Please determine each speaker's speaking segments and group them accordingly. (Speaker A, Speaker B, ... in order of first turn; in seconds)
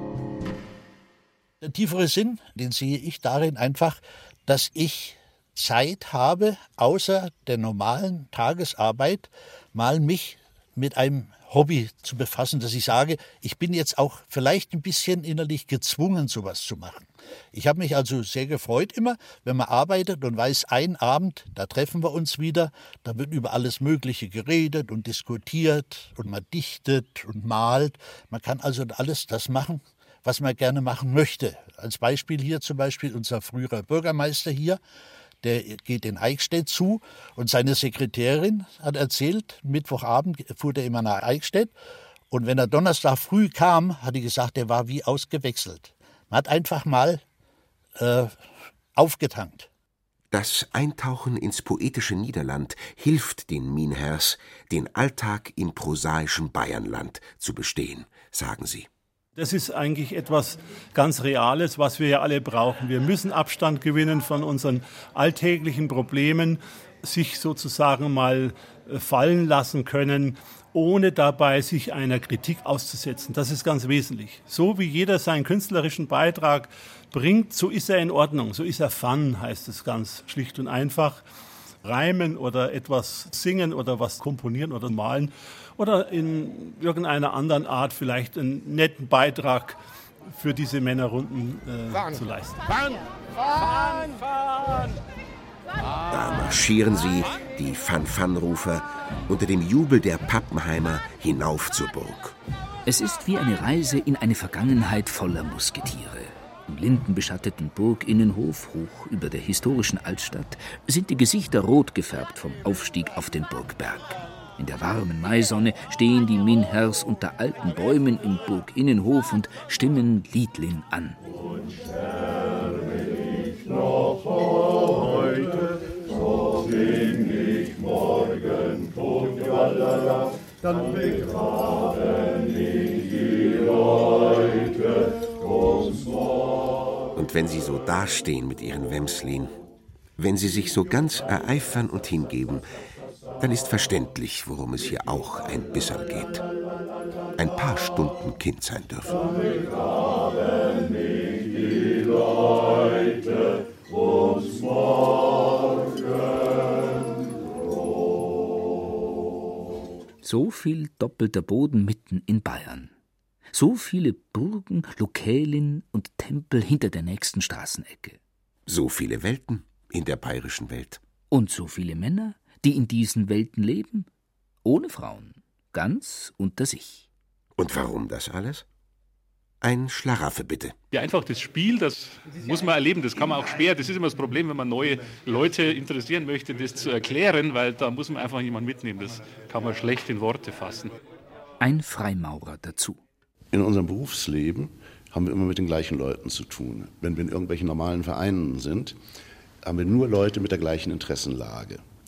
Speaker A: 1.6-34.8, 35.4-41.7, 42.3-47.2, 48.0-49.7
Speaker B: 50.3-58.9, 96.1-102.3, 137.1-139.5, 140.2-142.7, 143.4-146.4, 147.3-149.3, 168.7-171.0, 177.6-178.7, 179.6-180.8
Speaker C: 59.4-81.2, 81.8-89.8, 90.3-92.7
Speaker D: 102.8-121.2, 160.2-162.9, 163.5-168.2, 171.3-174.1, 174.6-177.1, 191.6-193.0
Speaker E: 180.9-190.9
Speaker F: 193.5-199.0, 199.6-201.8